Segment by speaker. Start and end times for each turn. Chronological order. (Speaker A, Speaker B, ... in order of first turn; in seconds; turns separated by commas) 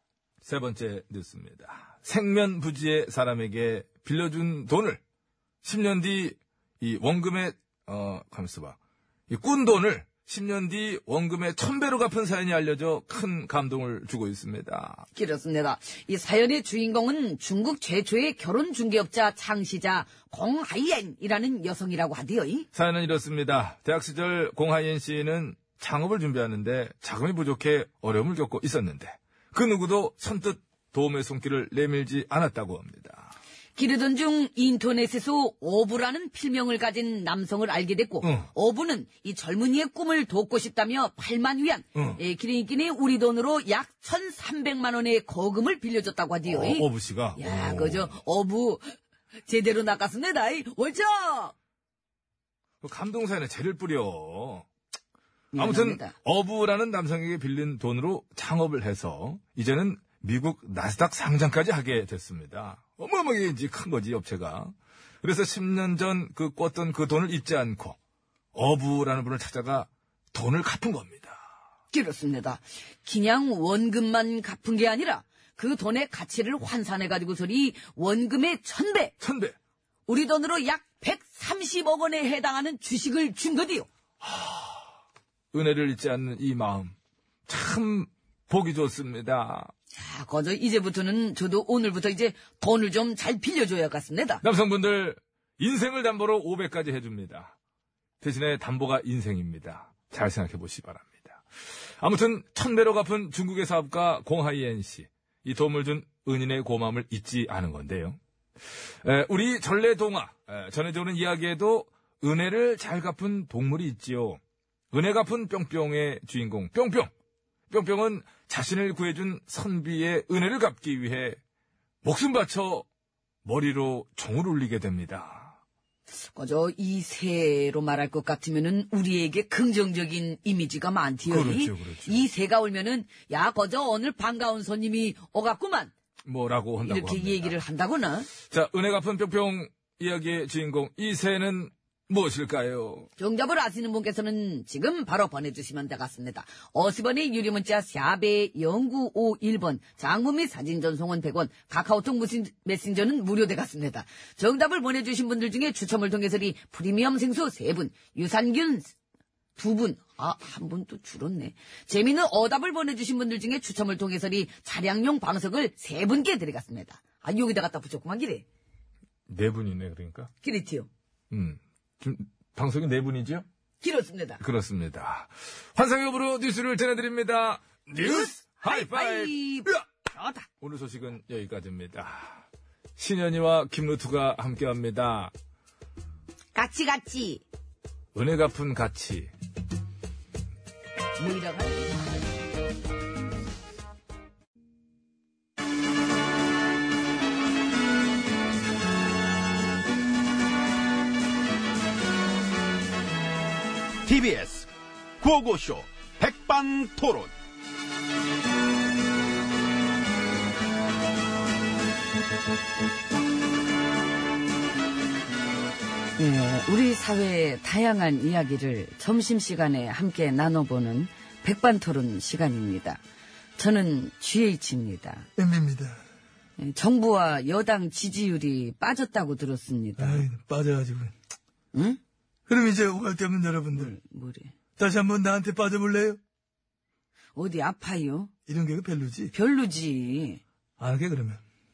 Speaker A: 0.4-5.0, Speaker A: 5.6-8.8, Speaker A: 9.3-15.1, Speaker B: 15.2-22.7, Speaker A: 22.7-33.3, Speaker B: 33.8-49.0, Speaker A: 38.2-38.5, Speaker A: 46.5-48.2, Speaker B: 49.5-51.5, Speaker A: 52.8-54.7, Speaker B: 55.5-56.1, Speaker A: 55.6-68.0, Speaker A: 68.5-71.4, Speaker B: 71.9-79.1, Speaker A: 79.2-79.5, Speaker B: 80.1-83.9, Speaker A: 84.2-84.7, Speaker A: 85.5-86.9, Speaker A: 87.5-89.7, Speaker B: 90.0-94.4, Speaker A: 94.4-97.5, Speaker A: 98.2-101.4, Speaker A: 102.0-108.2, Speaker A: 109.0-114.4, Speaker A: 114.9-117.1, Speaker A: 117.7-121.4, Speaker A: 122.0-122.8, Speaker A: 123.5-125.5, Speaker B: 126.3-135.9, Speaker A: 131.3-132.2, Speaker A: 136.2-137.6, Speaker B: 136.8-138.3, Speaker A: 138.5-143.1, Speaker B: 143.2-158.9, Speaker B: 159.6-168.4, Speaker A: 169.3-170.3, Speaker B: 170.4-170.9, Speaker A: 171.3-173.4, Speaker B: 173.8-174.4, Speaker A: 174.4-179.8, Speaker B: 178.0-180.5, Speaker A: 180.6-182.4, Speaker A: 183.0-185.3, Speaker B: 186.6-187.4, Speaker A: 188.1-189.3, Speaker B: 191.2-192.3, Speaker C: 204.1-207.3, Speaker B: 216.2-223.0, Speaker B: 223.6-225.3, Speaker D: 225.4-226.0, Speaker B: 226.6-230.2, Speaker D: 230.0-231.1, Speaker B: 231.7-232.0, Speaker D: 232.5-233.9, Speaker B: 233.8-234.5, Speaker D: 234.8-236.2, Speaker B: 237.4-238.3, Speaker D: 238.5-239.3, Speaker B: 239.3-240.4, Speaker D: 240.8-241.4